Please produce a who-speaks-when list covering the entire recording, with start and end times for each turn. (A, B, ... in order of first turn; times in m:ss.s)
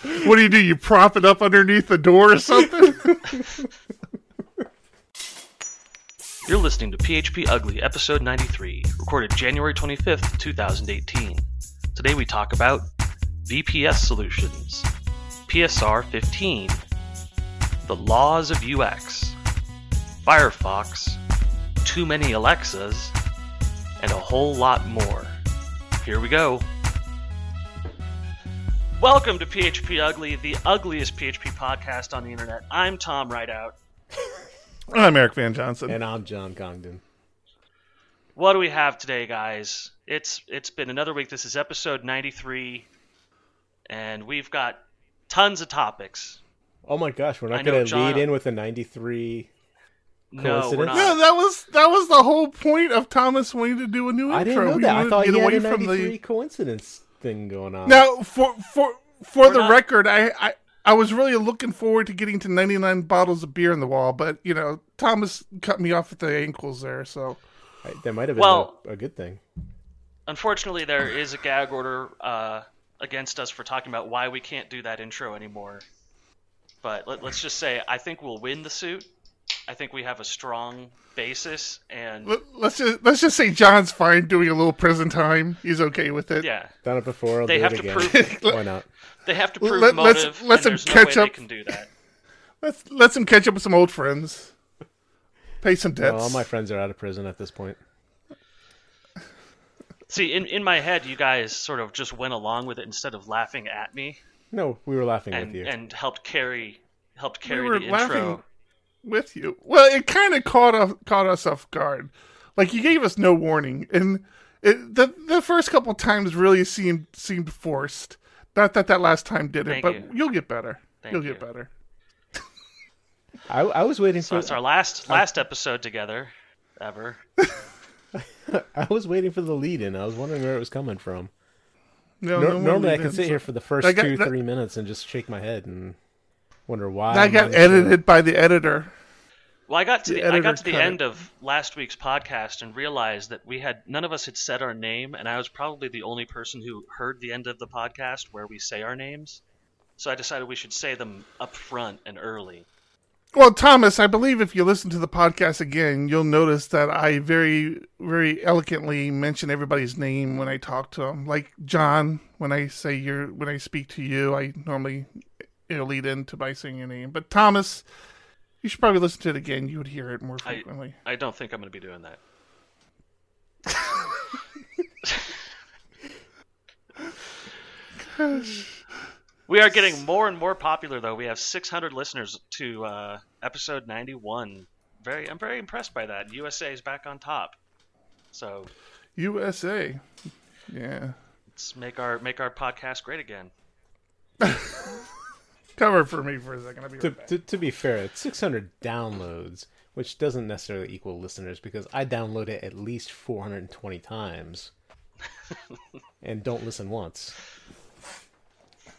0:00.2-0:03.2 A
0:06.5-0:12.9 B
0:13.4-0:14.9 B
0:15.5-0:16.8 B
0:17.9-0:19.4 B
0:20.2-0:21.2 B
0:21.8-0:23.2 B
0:24.0-0:25.4 B
0:26.0-0:26.7 B
0:29.0-0:33.8 B
0:34.9-0:36.0 A
0:35.9-0:37.0 C
0:38.4-0:42.9 B
0:43.9-0:46.4 B
0:46.9-0:49.5 C
0:47.5-0:48.3 B
0:50.3-0:51.2 B
0:50.4-0:51.1 C
0:50.9-0:56.1 A
0:54.3-0:58.0 C
0:57.9-1:07.4 A
0:59.4-0:59.8 B
1:07.8-1:09.4 C
1:08.4-1:08.8 B
1:10.3-1:15.8 B
1:16.8-1:19.1 B
1:19.7-1:22.4 B
1:22.2-1:26.5 A
1:26.4-1:26.8 B
1:26.8-1:28.9 C
1:27.5-1:28.4 B
1:28.0-1:28.6 A
1:29.2-1:31.9 B
1:29.6-1:31.4 A
1:32.6-1:34.5 A
1:35.6-1:36.5 A
1:36.0-1:37.8 C
1:40.1-1:44.2 B
1:44.5-1:45.7 C
1:45.3-1:48.4 B
1:47.5-1:48.4 A
1:49.0-2:01.7 A
1:59.7-2:00.1 B
2:01.0-2:01.4 B
2:03.5-2:05.3 C
2:04.2-2:07.2 B
2:08.2-2:11.3 C
2:12.2-2:14.3 A
2:12.4-2:16.0 C
2:16.7-2:18.0 C
2:17.1-2:18.9 A
2:19.7-2:29.4 B
2:20.1-2:21.0 A
2:30.0-2:32.7 B
2:33.3-2:47.8 A
2:48.6-2:51.0 A
2:50.4-2:52.2 B
2:58.0-2:58.7 A
2:59.5-3:07.6 B
3:08.3-3:08.7 B
3:09.2-3:10.1 A
3:10.7-3:11.2 A
3:11.6-3:13.5 B
3:14.4-3:15.0 A
3:15.8-3:17.3 A
3:17.0-3:24.7 C
3:26.2-3:27.4 C